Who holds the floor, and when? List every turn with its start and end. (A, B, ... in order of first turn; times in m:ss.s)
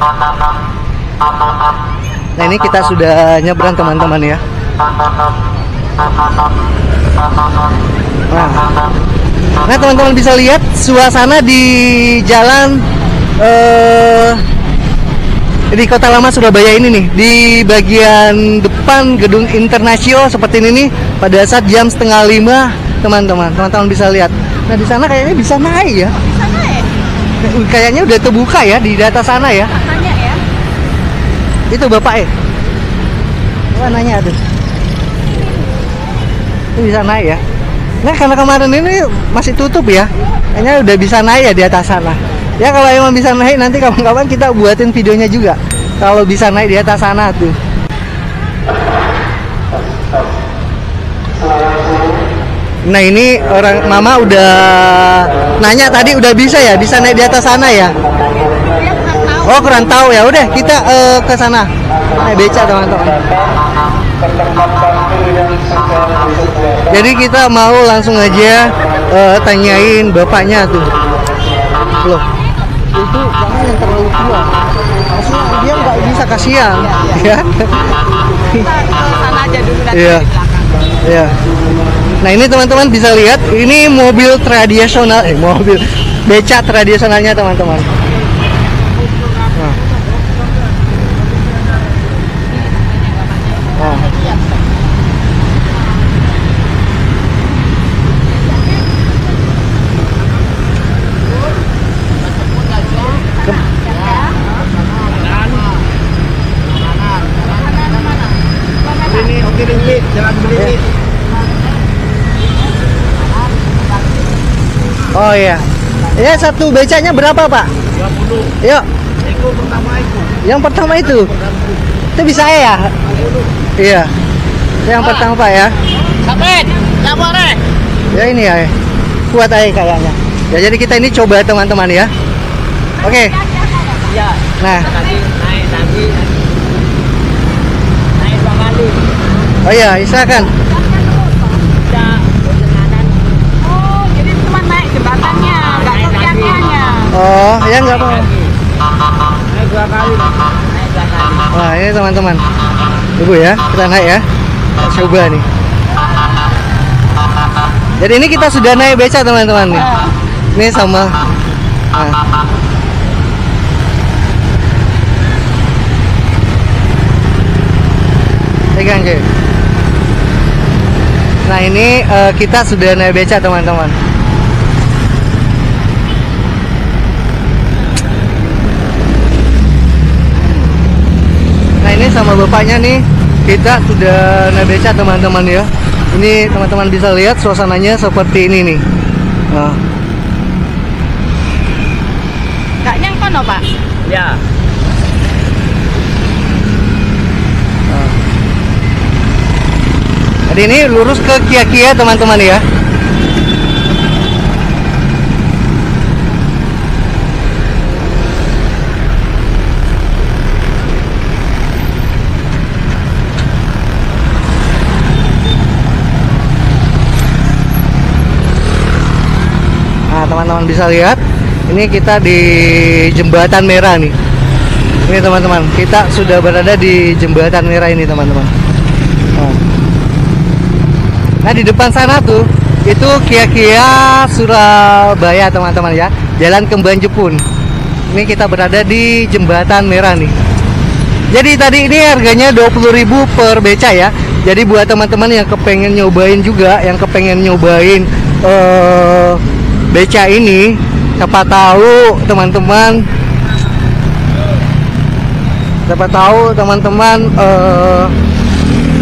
0:02.4-0:04.4 A
0:08.3-0:08.7 A
0:09.6-0:12.8 A
0:13.4-0:14.4 A
0:15.7-0:26.2 A
0:26.2-0:26.9 B
0:27.4-0:29.8 A
0:29.8-0:30.4 B
0:31.7-0:32.3 A
0:33.7-0:34.4 A
0:36.8-0:37.4 A
0:38.0-0:47.6 A
0:52.8-0:57.9 A
0:58.7-0:59.4 B
0:59.4-1:03.2 A
1:06.9-1:11.0 A
1:12.0-1:12.3 A
1:12.9-1:14.6 A
1:15.1-1:17.9 A
1:18.5-1:20.7 B
1:19.9-1:20.3 A
1:21.0-1:21.3 A
1:22.2-1:27.9 A
1:29.5-1:29.8 A
1:33.7-1:34.1 A
1:44.0-1:44.4 B
1:47.5-1:49.7 B
1:49.3-1:50.3 C
1:50.4-1:50.8 A
1:55.1-1:57.7 A
1:58.6-1:58.8 A
2:00.4-2:01.3 A
2:02.1-2:03.0 A
2:03.7-2:04.1 A
2:04.8-2:05.8 A
2:06.2-2:07.6 C
2:08.1-2:08.7 A
2:09.3-2:12.1 A
2:13.0-2:13.4 A
2:13.6-2:14.0 B
2:14.0-2:16.4 C
2:14.6-2:14.9 A
2:18.2-2:19.0 C
2:19.6-2:20.5 A
2:21.1-2:21.5 B
2:21.8-2:23.2 C
2:23.6-2:27.1 B
2:25.7-2:26.7 C
2:27.1-2:28.3 A
2:28.0-2:28.5 C
2:29.5-2:31.5 C
2:31.5-2:32.4 A
2:33.2-2:34.2 A
2:34.8-2:35.4 A
2:38.0-2:40.0 A
2:40.5-2:41.1 A
2:41.9-2:42.2 A
2:48.7-2:49.2 A
2:51.4-2:54.0 A
3:01.8-3:08.8 A
3:09.5-3:09.8 A
3:12.8-3:13.7 B
3:14.0-3:14.4 C
3:17.9-3:18.1 A
3:20.5-3:22.6 A
3:40.1-3:44.1 A
3:45.0-3:48.5 A
3:49.3-3:49.6 A
3:51.4-3:57.4 A
3:58.1-4:00.3 A
4:01.3-4:13.1 A
4:15.9-4:18.1 A